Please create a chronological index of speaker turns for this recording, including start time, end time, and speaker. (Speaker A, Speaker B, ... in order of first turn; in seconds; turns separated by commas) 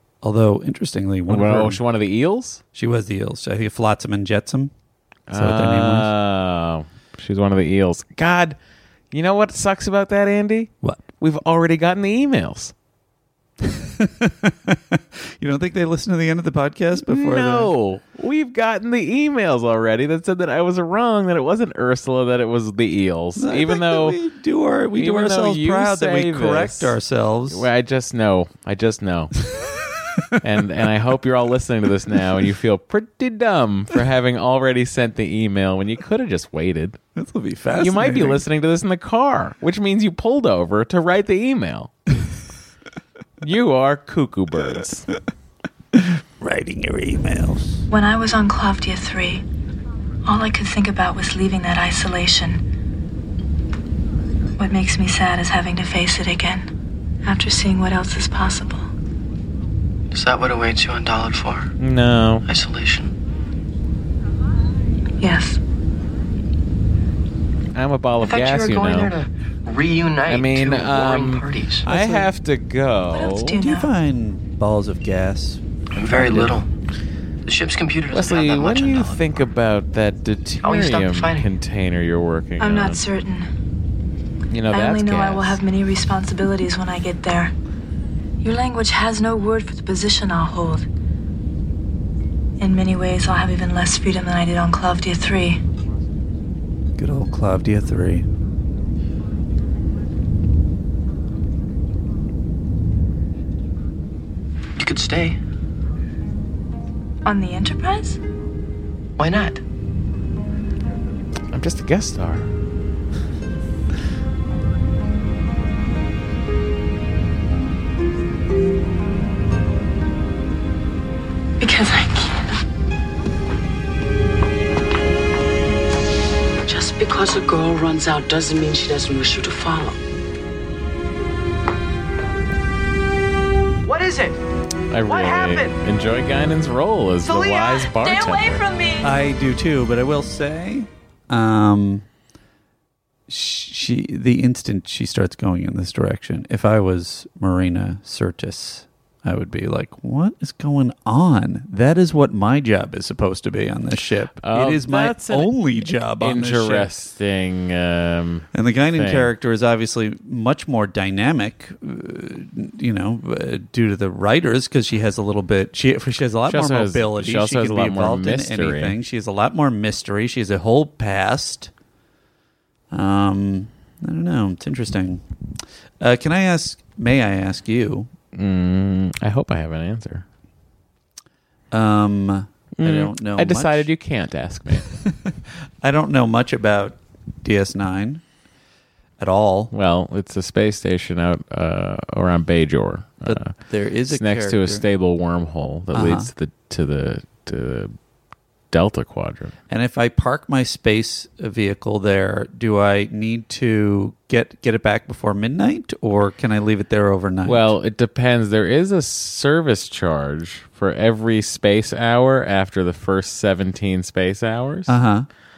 Speaker A: 0.2-1.8, Speaker B: 1.3-2.6, Speaker A: 2.7-4.7, Speaker B: 5.3-8.6, Speaker A: 5.3-6.1, Speaker B: 9.1-12.7, Speaker A: 13.6-17.7, Speaker B: 17.0-24.2, Speaker A: 23.4-27.6, Speaker B: 24.9-26.9, Speaker B: 27.5-29.4, Speaker A: 29.5-30.3, Speaker B: 30.4-37.0, Speaker A: 37.1-38.4, Speaker B: 37.8-41.9, Speaker B: 43.4-45.1, Speaker A: 45.9-47.8, Speaker C: 47.9-49.4, Speaker C: 50.2-52.6, Speaker C: 54.6-56.7, Speaker C: 57.2-58.9, Speaker D: 60.1-61.7, Speaker B: 61.8-62.5, Speaker D: 62.5-63.1, Speaker C: 65.2-65.6, Speaker B: 67.7-69.1, Speaker D: 68.2-71.8, Speaker B: 70.3-73.6, Speaker A: 71.8-72.3, Speaker C: 73.1-73.9, Speaker A: 73.6-76.6, Speaker D: 76.0-76.7, Speaker D: 77.5-79.4, Speaker B: 78.1-83.0, Speaker D: 80.6-81.5, Speaker C: 82.6-83.5, Speaker B: 84.5-85.6, Speaker C: 84.7-87.5, Speaker C: 88.4-90.9, Speaker C: 92.6-95.6, Speaker A: 97.0-98.2, Speaker D: 104.8-105.4, Speaker C: 107.2-108.2, Speaker D: 109.2-109.6, Speaker B: 111.5-112.5, Speaker C: 121.6-122.5, Speaker E: 126.7-130.0, Speaker D: 133.9-134.4, Speaker B: 134.9-138.7, Speaker D: 135.1-135.7, Speaker C: 137.2-139.1, Speaker A: 139.0-142.1, Speaker A: 143.3-156.9, Speaker B: 154.4-159.3, Speaker A: 158.5-171.7, Speaker B: 166.5-169.0, Speaker A: 172.9-175.2, Speaker A: 176.0-178.1, Speaker B: 178.3-180.2, Speaker A: 181.7-183.9, Speaker B: 182.8-184.9, Speaker A: 185.1-188.2, Speaker A: 189.2-189.7, Speaker B: 189.7-193.5, Speaker A: 193.2-194.9, Speaker B: 194.1-197.9, Speaker A: 195.9-196.3, Speaker B: 198.7-199.6, Speaker A: 199.7-207.7, Speaker B: 207.4-215.0, Speaker A: 214.9-215.3